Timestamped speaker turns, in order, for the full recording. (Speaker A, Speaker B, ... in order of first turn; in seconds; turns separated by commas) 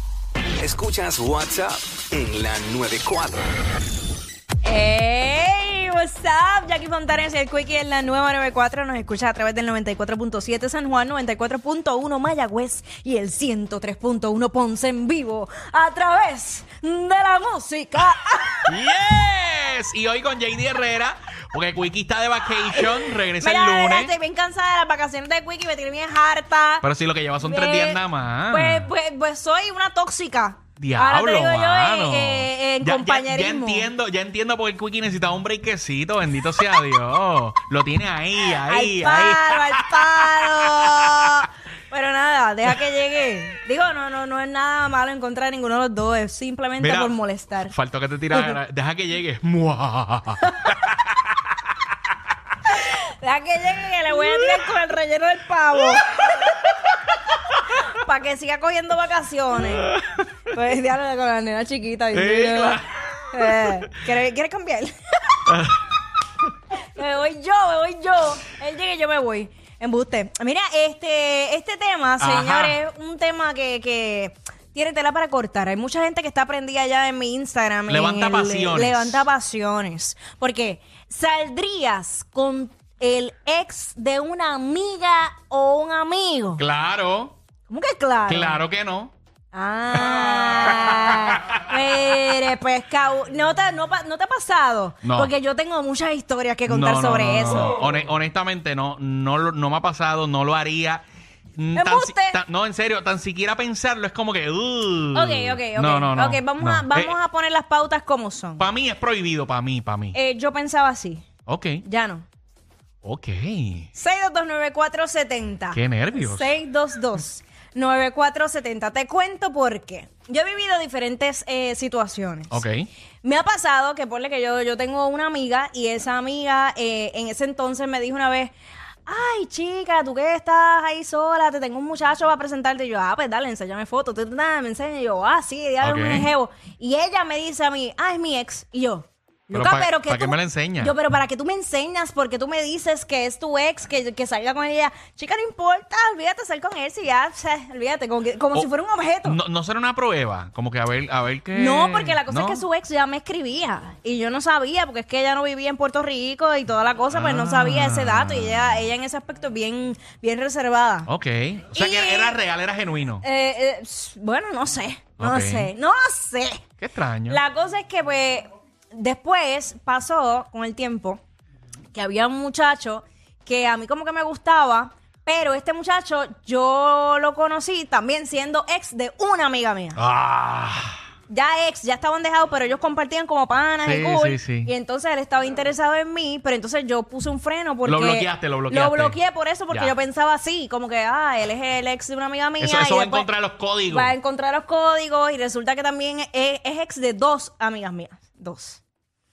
Speaker A: 0.6-3.3, Speaker B: 4.6-18.7, Speaker C: 18.7-24.1, Speaker B: 22.6-26.9, Speaker C: 26.8-28.9, Speaker B: 27.4-33.9, Speaker C: 30.8-41.5, Speaker B: 38.6-47.7, Speaker C: 46.8-47.1, Speaker C: 47.7-51.4, Speaker B: 52.7-56.5, Speaker B: 57.7-59.9, Speaker C: 59.8-60.2, Speaker B: 60.5-65.4, Speaker C: 62.1-63.9, Speaker C: 65.5-65.8, Speaker B: 66.8-86.6, Speaker C: 72.2-72.8, Speaker C: 77.9-79.2, Speaker C: 86.6-87.4, Speaker B: 87.7-88.6, Speaker C: 88.3-89.1, Speaker B: 89.5-97.8, Speaker C: 90.1-91.6, Speaker C: 95.0-95.3, Speaker C: 96.7-101.0, Speaker C: 101.6-107.2, Speaker B: 101.7-102.4, Speaker B: 105.1-108.7, Speaker C: 108.6-110.2, Speaker B: 110.1-111.3, Speaker C: 111.5-111.8, Speaker B: 111.8-112.3, Speaker C: 113.0-113.9, Speaker B: 113.9-122.6, Speaker C: 115.7-116.5, Speaker C: 122.5-122.9, Speaker B: 123.2-128.5, Speaker B: 129.1-149.4, Speaker C: 135.8-136.3, Speaker C: 139.5-140.9, Speaker C: 149.2-152.6, Speaker B: 151.5-161.1, Speaker C: 157.1-158.9, Speaker C: 161.1-163.2, Speaker B: 161.7-162.4, Speaker B: 163.2-166.7, Speaker C: 165.2-165.7, Speaker C: 166.8-167.4, Speaker B: 167.3-171.2, Speaker B: 171.9-180.0, Speaker C: 180.0-181.0, Speaker B: 181.3-193.3, Speaker C: 183.8-184.7, Speaker C: 187.8-189.2, Speaker C: 189.7-189.9, Speaker C: 192.6-194.1, Speaker B: 193.9-198.8